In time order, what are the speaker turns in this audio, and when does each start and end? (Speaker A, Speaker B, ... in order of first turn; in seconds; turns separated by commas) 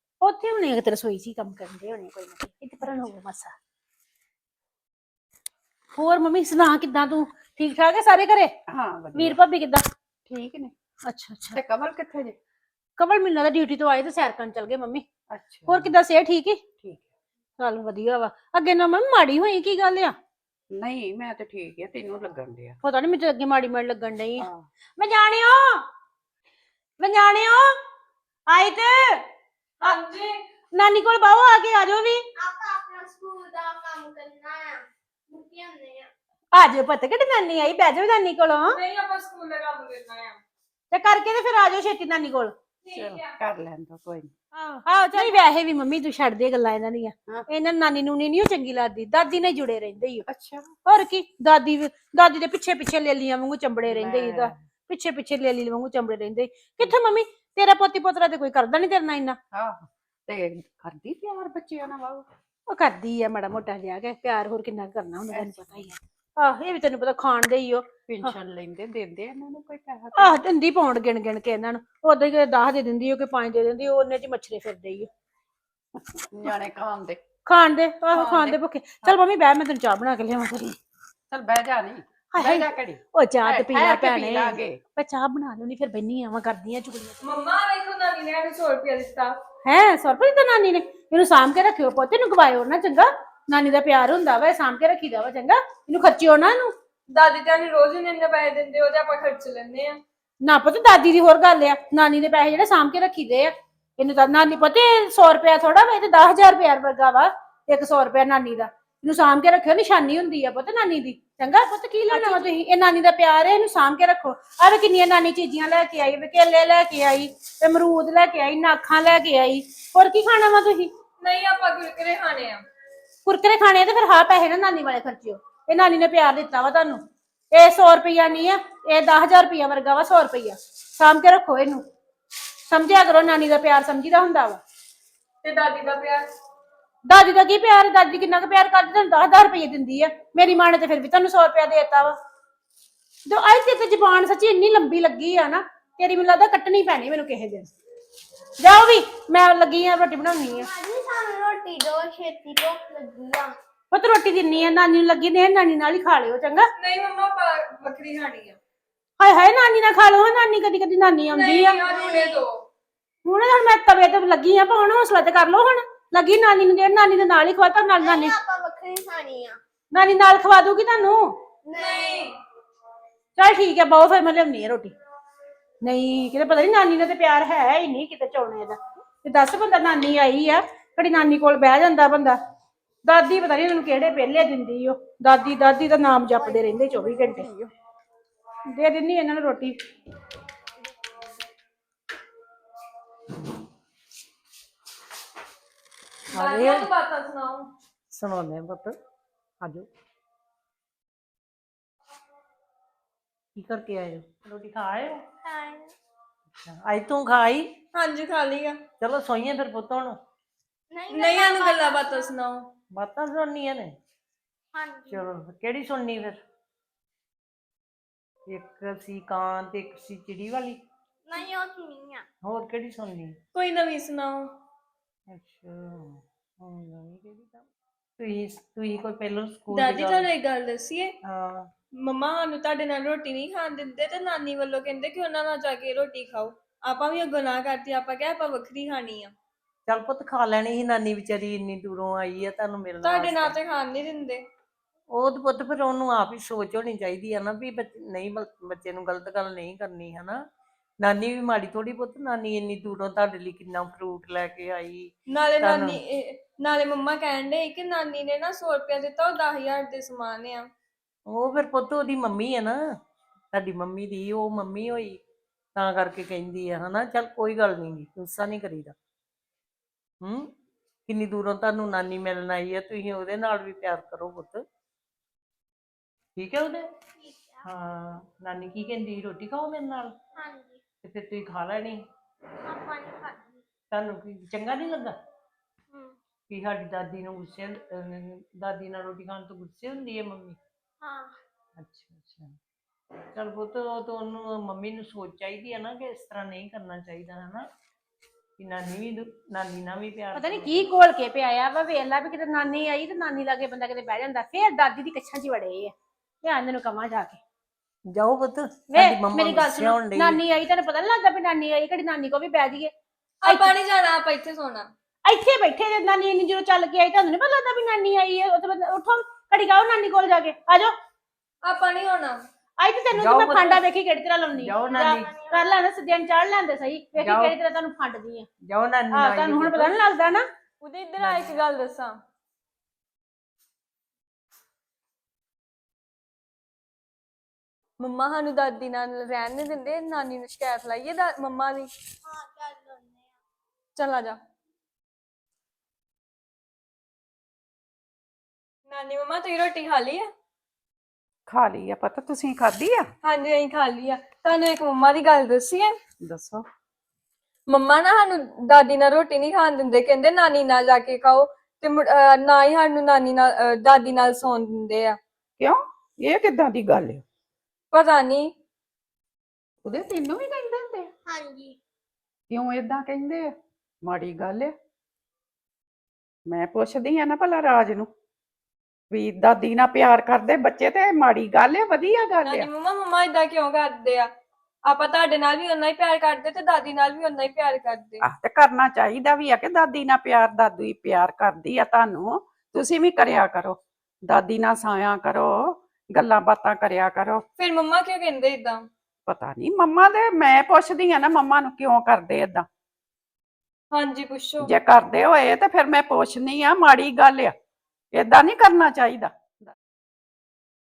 Speaker A: 0.2-3.5, Speaker A: 5.9-8.5, Speaker B: 8.7-9.4, Speaker A: 9.1-9.8, Speaker B: 10.3-10.7, Speaker A: 11.1-11.6, Speaker B: 11.5-12.4, Speaker A: 13.0-15.0, Speaker B: 15.3-15.9, Speaker A: 15.7-16.6, Speaker A: 17.6-20.1, Speaker B: 20.7-22.8, Speaker A: 22.8-25.8, Speaker B: 24.4-24.7, Speaker A: 27.0-27.7, Speaker A: 28.5-29.2, Speaker C: 29.8-30.3, Speaker A: 30.7-32.2, Speaker D: 32.3-36.1, Speaker A: 36.5-38.8, Speaker C: 38.7-40.4, Speaker A: 40.9-42.5, Speaker C: 42.8-43.3, Speaker B: 42.9-44.3, Speaker A: 44.6-50.2, Speaker B: 50.3-50.7, Speaker A: 50.8-59.4, Speaker B: 53.9-54.5, Speaker B: 59.5-62.2, Speaker A: 62.7-68.3, Speaker B: 65.3-65.9, Speaker B: 68.1-70.4, Speaker A: 70.2-75.1, Speaker B: 76.1-77.2, Speaker A: 77.5-80.8, Speaker B: 78.1-79.2, Speaker B: 81.3-84.8, Speaker A: 82.3-87.2, Speaker C: 87.2-89.3, Speaker A: 89.6-96.7, Speaker C: 97.1-100.0, Speaker A: 100.4-120.9, Speaker C: 121.2-122.6, Speaker A: 123.2-127.0, Speaker A: 127.5-131.8, Speaker A: 132.6-134.6, Speaker C: 135.4-136.2, Speaker A: 137.1-142.2, Speaker A: 143.3-147.7, Speaker A: 148.6-150.7, Speaker D: 150.5-153.6, Speaker A: 153.9-156.7, Speaker C: 156.8-158.6, Speaker A: 159.2-161.9, Speaker C: 161.3-162.6, Speaker D: 161.9-162.4, Speaker A: 163.2-168.3, Speaker D: 168.0-169.6, Speaker A: 169.9-171.3, Speaker D: 171.6-172.3, Speaker C: 171.7-172.4, Speaker A: 173.3-174.9, Speaker A: 175.8-182.4, Speaker A: 183.1-187.5, Speaker A: 188.7-189.8, Speaker E: 196.3-196.9, Speaker C: 196.3-197.7, Speaker E: 198.1-199.0, Speaker E: 199.6-199.9, Speaker E: 203.6-205.2, Speaker D: 205.4-205.9, Speaker E: 206.6-207.7, Speaker C: 207.9-208.8, Speaker E: 209.0-210.2, Speaker D: 210.9-212.3, Speaker C: 211.1-212.7, Speaker E: 212.9-213.9, Speaker D: 214.7-215.2, Speaker E: 215.1-216.4, Speaker E: 218.4-220.8, Speaker D: 221.3-222.2, Speaker E: 222.4-223.4, Speaker C: 223.5-224.5, Speaker E: 225.3-227.7, Speaker E: 228.2-230.3, Speaker C: 229.7-231.1, Speaker E: 231.2-231.7, Speaker C: 232.0-239.3, Speaker E: 239.9-243.6, Speaker C: 243.0-244.4, Speaker E: 245.1-250.4, Speaker E: 251.0-256.0, Speaker C: 255.3-260.7, Speaker E: 261.3-262.8, Speaker E: 263.5-265.2, Speaker E: 265.8-268.9, Speaker E: 270.2-270.5, Speaker E: 271.1-274.6, Speaker E: 276.4-276.9, Speaker D: 277.2-277.6, Speaker E: 277.6-280.1, Speaker D: 280.4-280.8, Speaker E: 281.0-282.0, Speaker D: 282.6-283.6, Speaker E: 283.9-285.1, Speaker E: 286.5-290.6, Speaker D: 291.0-291.3, Speaker E: 291.8-292.6, Speaker E: 293.3-297.7, Speaker E: 298.6-300.9, Speaker A: 300.3-307.4, Speaker E: 308.1-310.4, Speaker A: 308.9-312.9, Speaker C: 313.4-314.9, Speaker A: 313.4-313.7, Speaker A: 315.2-320.9, Speaker C: 321.6-322.4, Speaker A: 322.8-328.5, Speaker E: 323.1-323.8, Speaker E: 324.6-325.3, Speaker E: 327.2-327.5, Speaker E: 328.6-330.0, Speaker A: 329.1-330.4, Speaker C: 330.8-332.1, Speaker E: 331.2-331.5, Speaker C: 338.0-341.9, Speaker D: 342.2-343.3, Speaker C: 343.9-344.4, Speaker C: 348.9-350.3, Speaker B: 351.5-353.1, Speaker C: 353.2-355.9, Speaker B: 356.2-356.6, Speaker C: 357.7-365.2, Speaker B: 365.6-367.2, Speaker C: 367.9-368.5, Speaker B: 369.8-371.1, Speaker D: 371.2-371.8, Speaker B: 372.5-374.7, Speaker B: 376.5-378.1, Speaker B: 379.1-382.7, Speaker C: 382.4-384.3, Speaker C: 384.9-388.2, Speaker B: 388.2-397.4, Speaker C: 397.6-398.9, Speaker B: 399.3-402.6, Speaker C: 403.9-404.7, Speaker B: 404.6-407.5, Speaker B: 408.1-409.7